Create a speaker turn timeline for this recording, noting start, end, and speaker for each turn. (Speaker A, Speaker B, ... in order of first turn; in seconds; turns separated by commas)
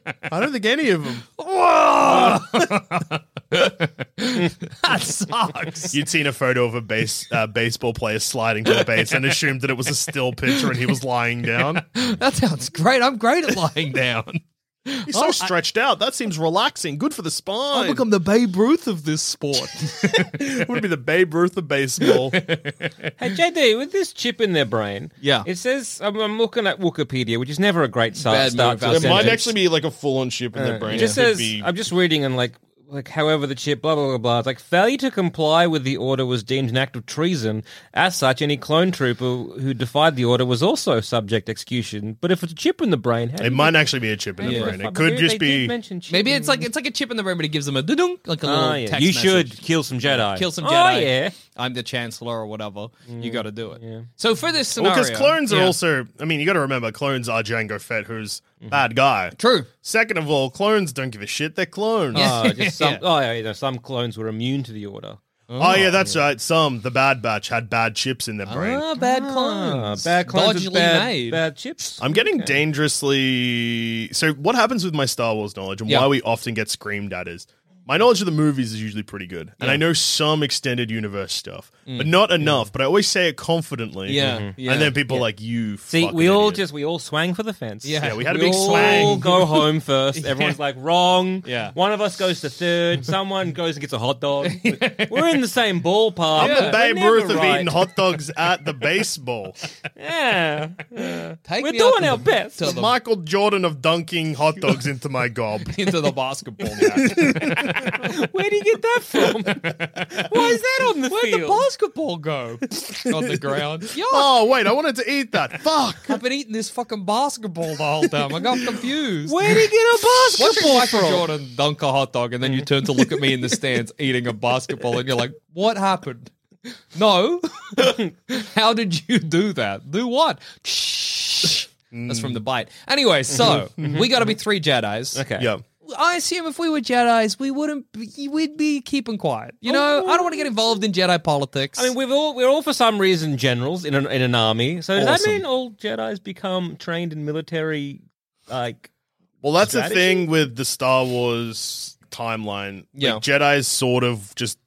Speaker A: 0.3-1.3, Speaker B: 1.4-6.0, Speaker A: 2.0-2.6, Speaker A: 5.9-11.8, Speaker B: 8.8-9.4, Speaker B: 10.5-10.9, Speaker B: 11.6-15.5, Speaker A: 15.1-18.1, Speaker B: 17.7-20.7, Speaker A: 20.1-22.4, Speaker B: 22.0-23.1, Speaker C: 23.2-29.4, Speaker B: 25.2-25.5, Speaker B: 28.2-29.6, Speaker A: 28.9-31.7, Speaker C: 30.5-46.7, Speaker B: 30.9-31.2, Speaker A: 43.4-45.7, Speaker B: 44.4-44.8, Speaker B: 46.1-55.8, Speaker C: 48.4-51.4, Speaker C: 53.1-54.1, Speaker A: 54.8-62.3, Speaker B: 59.4-59.7, Speaker B: 62.1-63.0, Speaker C: 62.1-65.2, Speaker B: 65.5-66.0, Speaker A: 65.6-68.8, Speaker B: 68.5-71.4, Speaker C: 69.0-72.5, Speaker A: 72.0-86.6, Speaker B: 81.9-82.6, Speaker B: 84.1-85.2, Speaker C: 84.2-84.5, Speaker C: 85.9-97.9, Speaker B: 87.8-90.6, Speaker A: 88.0-89.2, Speaker B: 91.4-91.8, Speaker B: 94.4-95.3, Speaker A: 96.3-99.6, Speaker B: 96.4-96.8, Speaker C: 100.0-102.7, Speaker B: 101.5-102.9, Speaker A: 102.7-105.8, Speaker B: 105.7-107.9, Speaker A: 107.0-107.8, Speaker C: 107.8-111.7, Speaker B: 109.6-114.4, Speaker A: 114.1-116.2, Speaker B: 116.1-119.7, Speaker C: 119.3-121.3, Speaker B: 120.4-126.3, Speaker B: 126.9-135.2, Speaker A: 131.9-132.4, Speaker C: 133.3-134.1, Speaker C: 135.1-135.5, Speaker A: 135.4-135.6, Speaker B: 135.9-141.9, Speaker C: 139.7-140.5, Speaker C: 141.8-148.9, Speaker A: 144.9-145.4, Speaker A: 149.4-154.6, Speaker C: 149.6-150.3, Speaker B: 152.9-153.2